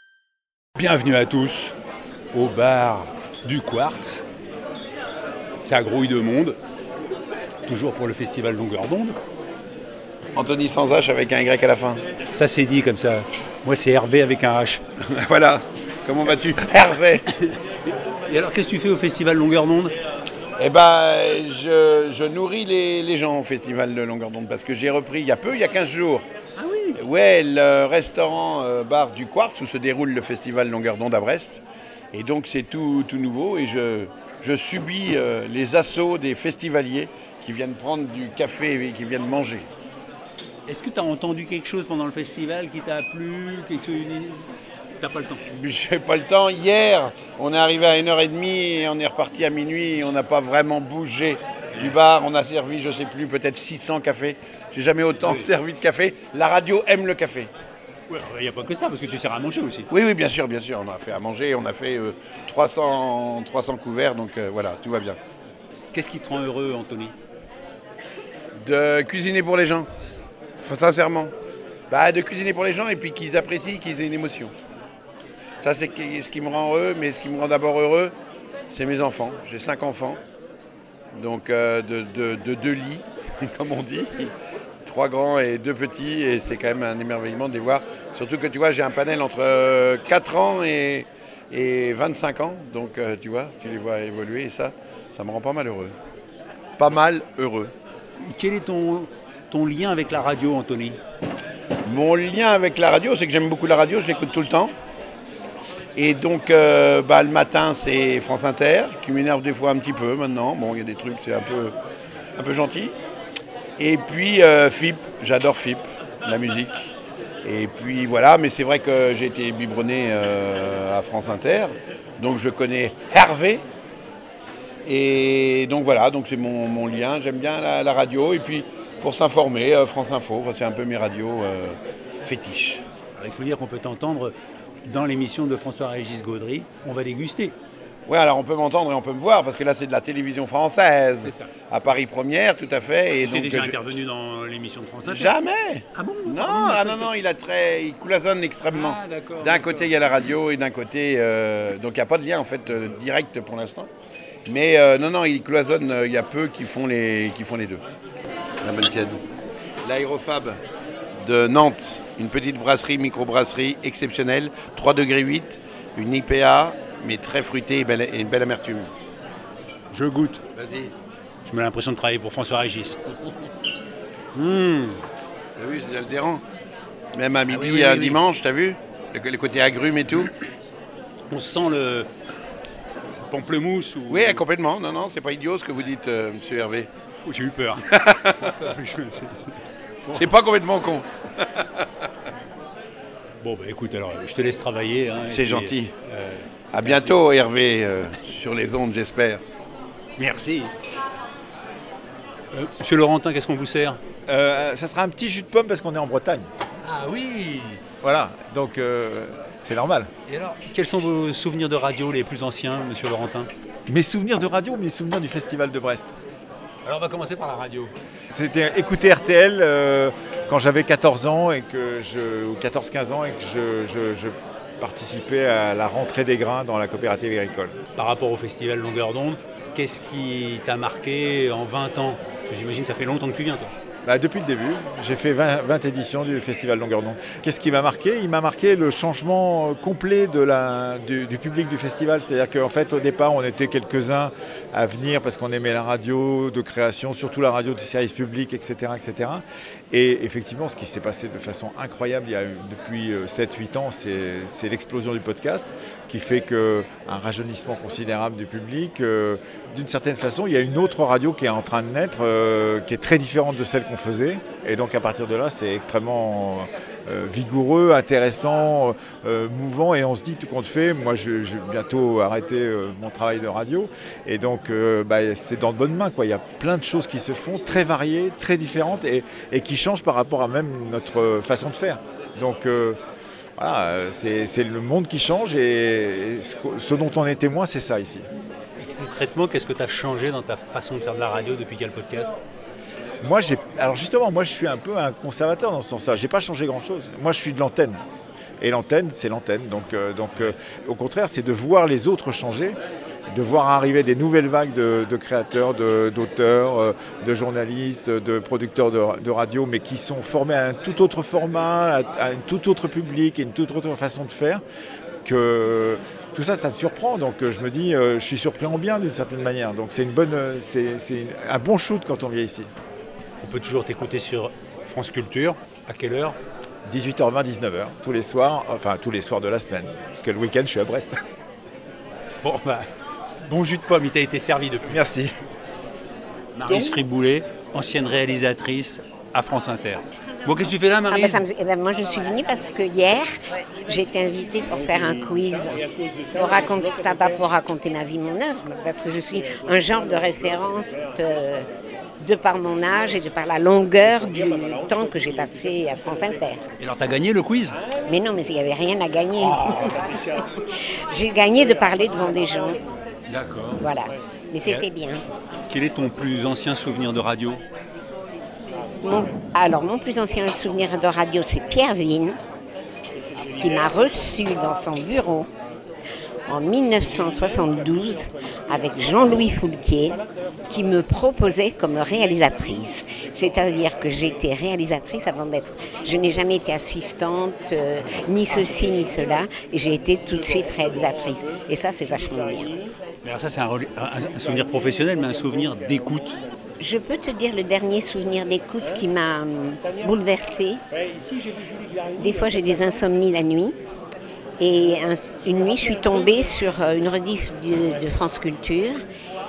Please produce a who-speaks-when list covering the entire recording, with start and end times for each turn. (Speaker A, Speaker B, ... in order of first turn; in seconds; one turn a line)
Speaker A: 0.8-1.7
Speaker A: 2.3-4.2
Speaker A: 5.7-6.6
Speaker A: 7.7-9.2
Speaker B: 10.4-12.0
Speaker A: 12.3-14.8
Speaker B: 15.2-17.2
Speaker A: 18.3-19.9
Speaker B: 20.6-26.2
Speaker A: 26.6-27.0
Speaker B: 27.0-39.7
Speaker A: 40.7-44.5
Speaker A: 45.0-45.4
Speaker B: 45.5-57.5
Speaker A: 55.2-55.5
Speaker A: 58.1-59.9
Speaker B: 59.9-65.2
Speaker A: 65.9-67.1
Speaker B: 68.6-69.9
Speaker B: 70.6-71.3
Speaker B: 71.9-74.5
Speaker B: 75.6-78.1
Speaker B: 78.7-80.2
Speaker B: 81.2-84.3
Speaker B: 84.8-95.9
Speaker B: 96.8-97.7
Speaker A: 98.2-101.0
Speaker B: 101.8-104.7
Speaker B: 106.0-111.7
Speaker B: 112.4-113.0
Speaker B: 113.8-123.6
Speaker B: 124.9-132.8
Speaker A: 133.2-134.3
Speaker A: 134.9-137.6
Speaker B: 138.1-143.8
Speaker A: 141.2-141.5
Speaker A: 143.2-145.3
Speaker B: 145.1-153.9
Speaker A: 145.9-147.1
Speaker A: 148.7-149.9
Speaker B: 154.5-157.8
Speaker B: 158.6-159.2
Speaker B: 159.8-160.6
Speaker B: 161.2-168.9
Speaker A: 169.9-170.4
Speaker B: 170.6-170.9
Speaker A: 171.5-173.0
Speaker A: 174.3-175.0
Speaker B: 175.6-176.4
Speaker B: 177.1-180.3
Speaker A: 177.5-178.2
Speaker A: 181.3-182.1
Speaker A: 183.3-184.4
Speaker B: 184.1-186.9
Speaker A: 187.3-187.8
Speaker B: 188.0-188.3
Speaker A: 188.4-189.5
Speaker A: 190.1-190.3
Speaker B: 190.1-191.1
Speaker A: 193.4-197.2
Speaker B: 195.3-195.9
Speaker B: 196.7-199.4
Speaker A: 200.2-200.7
Speaker A: 202.5-204.0
Speaker C: 204.3-206.5
Speaker A: 206.8-207.8
Speaker C: 208.0-210.1
Speaker A: 210.3-213.5
Speaker C: 213.9-216.2
Speaker A: 216.8-217.9
Speaker C: 218.3-227.7
Speaker A: 228.0-233.7
Speaker C: 234.1-283.0
Speaker C: 283.6-288.2
Speaker A: 288.8-292.4
Speaker C: 293.2-298.0
Speaker C: 298.6-302.8
Speaker C: 303.3-314.6
Speaker C: 315.2-322.7
Speaker A: 323.4-326.4
Speaker C: 326.9-331.2
Speaker A: 332.4-332.9
Speaker A: 333.4-334.9
Speaker C: 334.9-335.3
Speaker A: 336.6-341.5
Speaker D: 341.1-351.7
Speaker D: 352.2-356.6
Speaker A: 356.8-357.8
Speaker D: 358.1-360.4
Speaker D: 361.1-362.8
Speaker A: 363.3-363.8
Speaker D: 363.8-365.2
Speaker A: 365.7-367.6
Speaker D: 369.0-372.4
Speaker D: 373.4-375.5
Speaker D: 376.5-392.8
Speaker A: 393.2-396.4
Speaker D: 396.8-400.8
Speaker D: 402.1-403.8
Speaker D: 404.6-409.0